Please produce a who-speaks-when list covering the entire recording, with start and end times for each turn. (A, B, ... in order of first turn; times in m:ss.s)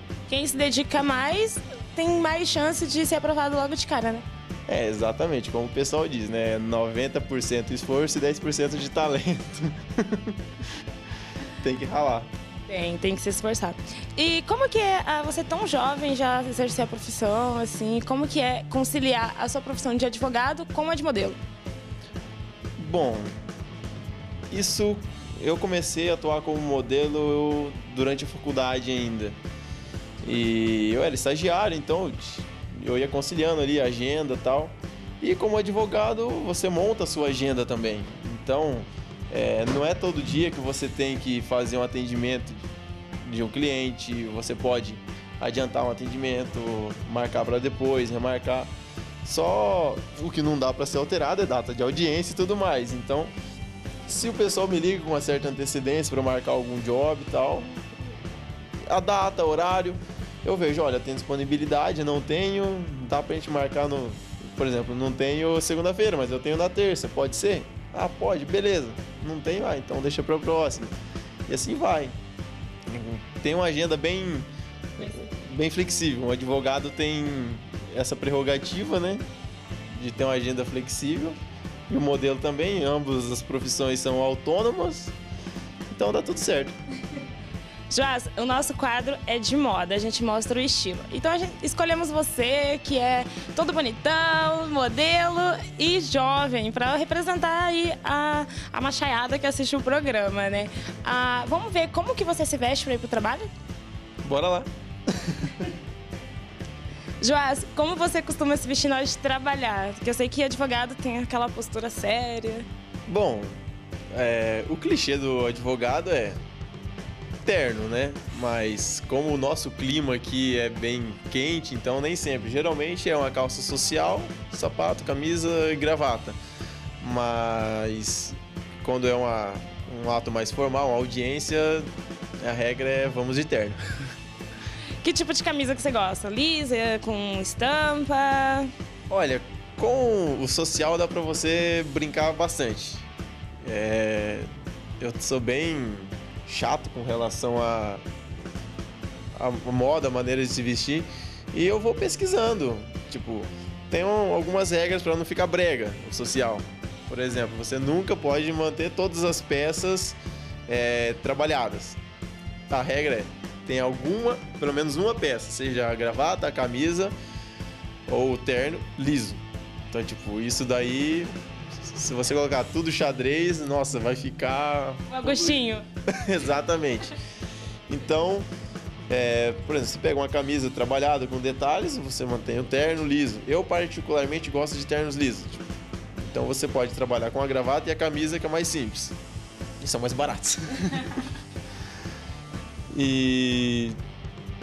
0:00.3-0:04.2 A
0:04.7-0:10.4 B
0:11.6-0:12.3 B
0:12.7-0:21.3 A
0:22.8-0:23.4 B
0:24.5-0:29.4 B
0:30.2-0:42.7 B
0:43.2-0:48.7 B
0:49.2-0:53.3 B
0:54.1-0:57.8 B
0:58.9-1:11.0 B
1:11.5-1:12.2 B
1:12.9-1:19.2 B
1:19.9-1:25.1 B
1:25.9-1:26.8 B
1:27.9-1:43.4 A
1:44.2-1:45.6 B
1:47.2-1:52.6 A
1:53.1-1:53.6 B
1:54.1-1:56.4 B
1:57.4-2:06.4 B
2:07.0-2:11.9 B
2:12.4-2:13.8 B
2:15.0-2:18.6 A
2:19.1-2:23.1 B
2:23.6-2:24.5 B
2:25.0-2:28.0 B
2:29.4-2:42.0 B
2:42.7-2:47.2 B
2:48.1-2:55.6 B
2:55.2-2:55.8 A
2:56.1-2:57.2 B
2:57.9-2:58.5 B
2:59.1-3:05.6 B
3:06.2-3:09.2 B
3:09.8-3:11.3 B
3:12.9-3:14.0 B